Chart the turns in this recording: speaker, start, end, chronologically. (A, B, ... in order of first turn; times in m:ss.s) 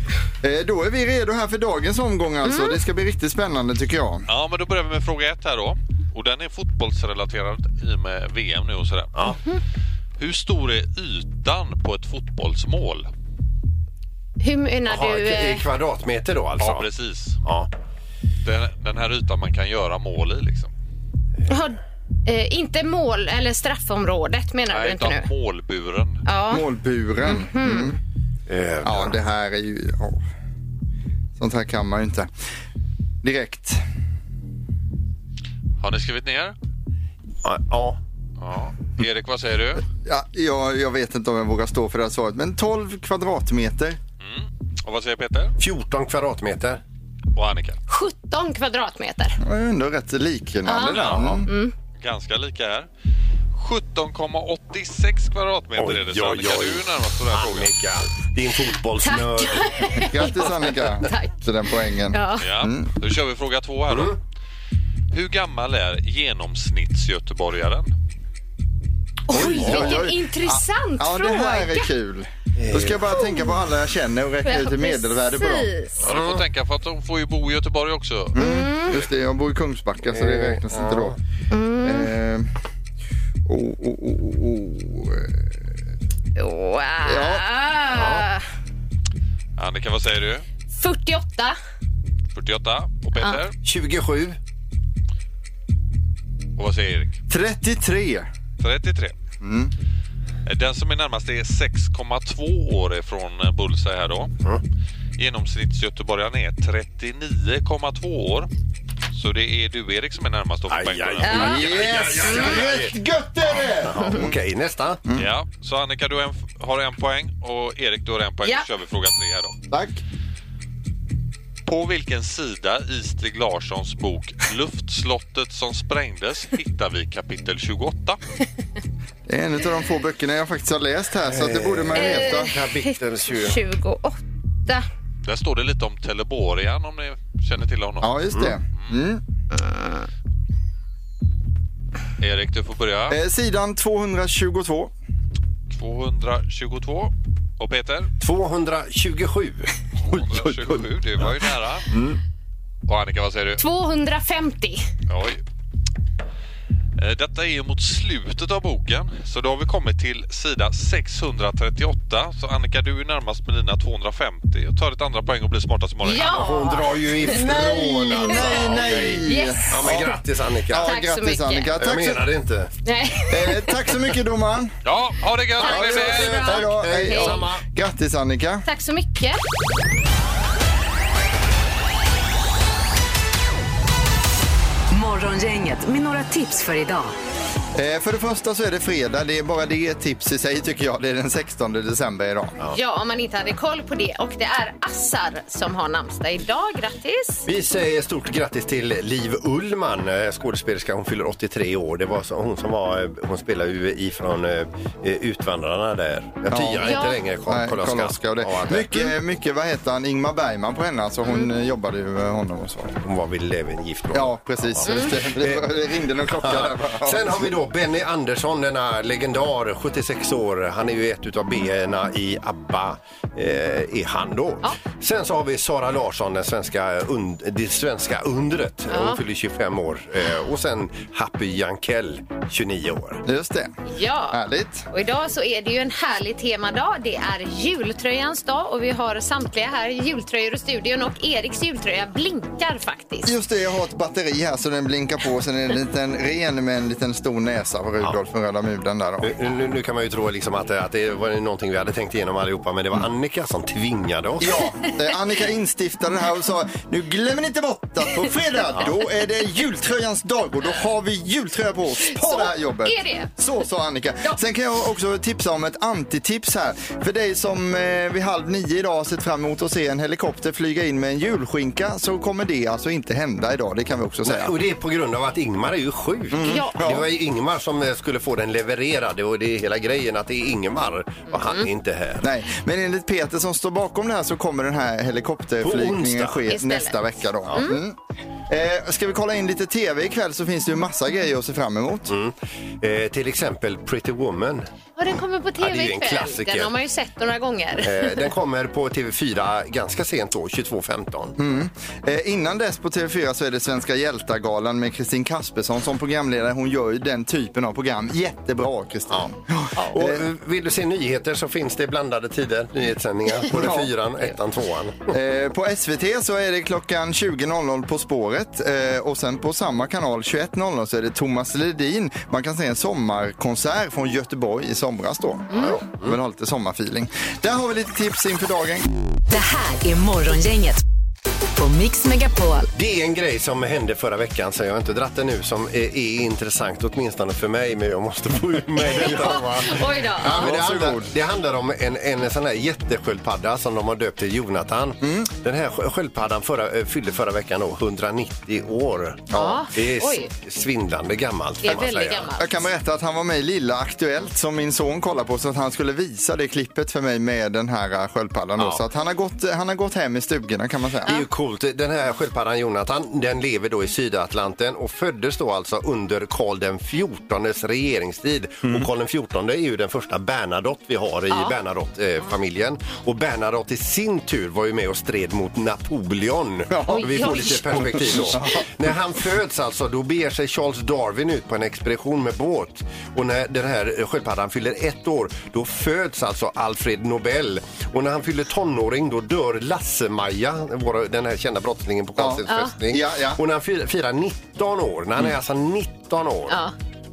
0:00.4-0:04.3 A
0:02.4-0:02.8 B
0:04.3-0:09.3 C
0:10.2-0:13.1 C
0:14.4-0:15.6 B
0:14.9-0:16.9 D
0:16.6-0:17.4 C
0:17.4-0:17.7 D
0:18.4-0:20.7 C
0:21.5-0:25.3 B
0:24.7-0:26.2 C
0:26.3-0:26.6 B
0:26.5-0:28.0 A
0:27.2-0:28.0 B
0:28.5-0:29.2 D
0:28.8-0:30.2 A
0:31.4-0:32.3 A
0:33.2-0:33.8 A
0:35.8-0:36.6 C
0:37.4-0:38.0 D
0:38.4-0:39.8 C
0:40.0-0:44.0 A
0:44.2-0:45.5 C
0:45.6-0:46.8 D
0:47.4-0:47.8 C
0:47.9-0:49.4 B
0:49.4-0:51.5 A
0:50.7-0:51.7 B
0:50.9-0:51.4 C
0:51.1-0:51.4 D
0:52.0-0:52.9 C
0:53.5-0:57.7 C
0:55.8-1:00.0 D
0:59.0-1:01.4 B
1:00.0-1:02.9 A
1:02.1-1:02.5 B
1:02.4-1:04.2 C
1:03.9-1:04.2 D
1:05.1-1:07.9 C
1:09.3-1:11.9 B
1:09.3-1:15.7 A
1:09.3-1:10.0 D
1:12.6-1:13.1 D
1:13.1-1:13.6 B
1:14.4-1:16.1 B
1:16.0-1:18.4 C
1:16.0-1:16.4 D
1:18.3-1:21.2 A
1:18.4-1:19.0 B
1:20.1-1:21.2 D
1:21.5-1:22.1 B
1:21.8-1:22.5 A
1:23.5-1:25.6 A
1:26.4-1:28.4 B
1:27.0-1:27.4 A
1:27.9-1:28.2 D
1:29.6-1:30.4 C
1:30.7-1:31.6 B
1:32.3-1:33.6 C
1:33.6-1:34.4 D
1:36.6-1:37.2 C
1:37.3-1:38.3 A
1:38.6-1:39.2 C
1:39.4-1:39.7 A
1:40.4-1:44.3 C
1:45.2-1:48.5 C
1:49.1-1:52.3 C
1:50.7-1:53.0 D
1:51.2-1:51.6 B
1:51.3-1:54.4 A
1:53.6-1:55.0 D
1:55.2-1:59.6 C
1:59.7-2:00.0 A
2:01.6-2:08.2 C
2:09.3-2:12.5 A
2:11.3-2:13.6 D
2:11.9-2:14.9 B
2:15.2-2:18.1 C
2:18.0-2:19.2 A
2:19.6-2:20.0 B
2:22.2-2:23.2 C
2:23.1-2:24.9 A
2:25.7-2:28.1 C
2:28.2-2:29.7 D
2:30.0-2:31.9 C
2:30.3-2:30.8 A
2:32.9-2:33.6 C
2:33.6-2:34.9 B
2:35.1-2:35.4 C
2:37.0-2:46.5 C
2:46.0-2:49.9 B
2:46.3-2:50.9 D
2:47.2-2:50.2 A
2:50.7-2:52.3 A
2:50.8-2:51.7 B
2:51.8-2:52.7 D
2:52.8-2:53.9 B
2:53.3-2:54.8 A
2:54.8-2:56.5 C
2:55.6-2:57.4 B
2:55.6-2:58.7 A
2:55.8-2:57.6 D
2:58.6-2:59.4 B
3:04.9-3:07.1 E
3:07.8-3:12.6 A
3:12.7-3:17.5 B
3:17.5-3:28.9 D
3:26.5-3:33.0 A
3:26.8-3:27.2 B
3:31.2-3:31.5 B
3:33.0-3:35.7 D
3:34.1-3:37.6 A
3:34.9-3:35.1 B
3:36.3-3:53.2 D
3:48.9-3:49.2 B
3:53.2-3:53.8 A
3:53.9-3:54.4 B
3:54.3-3:54.9 A
3:54.9-4:03.3 B
4:03.2-4:09.3 A
4:09.2-4:14.6 D
4:14.4-4:34.5 A
4:22.1-4:23.3 B
4:34.2-4:42.3 D
4:36.3-4:37.1 A
4:36.4-4:36.8 B
4:41.3-4:41.7 B
4:42.2-4:48.0 A
4:45.6-4:46.5 D
4:46.5-4:47.0 B
4:47.5-4:47.8 B
4:48.5-4:52.1 A
4:52.1-4:54.7 D
4:55.0-4:58.2 B
4:55.6-4:56.7 D
4:57.8-5:01.4 D
5:01.4-5:10.2 A
5:09.9-5:15.1 D
5:13.5-5:13.9 A
5:15.1-5:28.9 A
5:25.5-5:26.2 D
5:29.3-5:30.8 E
5:31.6-5:32.7 E
5:32.8-5:52.3 D
5:38.8-5:40.5 B
5:40.2-5:41.1 A
5:45.0-5:45.3 A
5:49.3-5:49.6 A
5:49.3-5:50.3 B
5:51.6-5:52.7 B
5:52.4-6:01.1 A
6:01.1-6:36.6 D
6:16.7-6:18.6 A
6:16.9-6:18.3 B
6:32.2-6:33.4 A
6:32.5-6:32.7 B
6:36.5-6:36.7 B